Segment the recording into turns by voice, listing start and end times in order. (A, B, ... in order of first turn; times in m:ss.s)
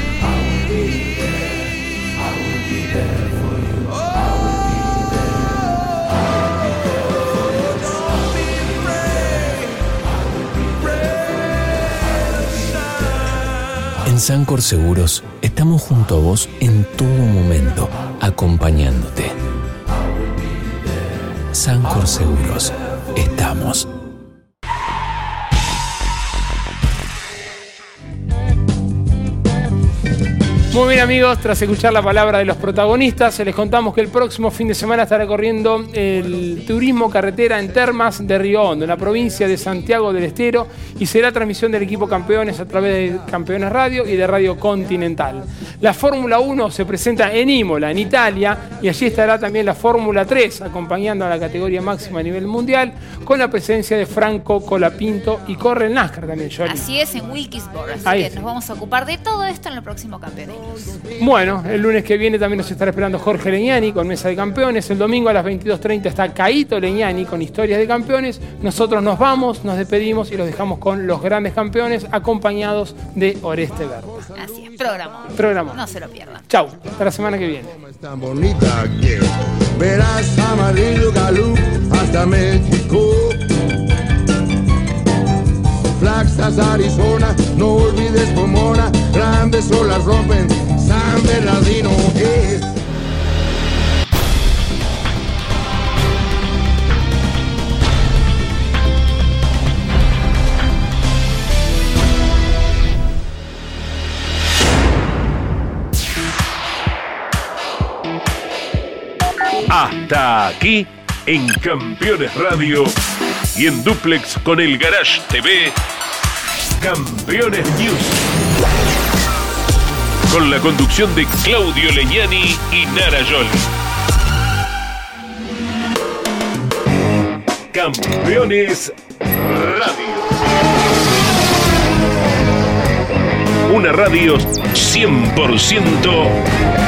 0:14.0-0:19.4 A
0:21.5-0:23.9 A
0:30.7-0:56.8 B
0:56.6-1:00.9 C
0:58.0-0:58.3 B
1:01.2-1:14.1 B
1:14.2-1:16.5 C
1:15.4-1:15.8 B
1:16.5-1:17.7 B
1:17.8-1:23.5 D
1:26.0-1:32.7 D
1:49.7-1:52.9 E
1:53.5-1:55.8 E
1:56.8-1:58.2 E
2:00.3-2:03.6 E
2:07.7-2:10.3 E
2:13.7-2:16.4 E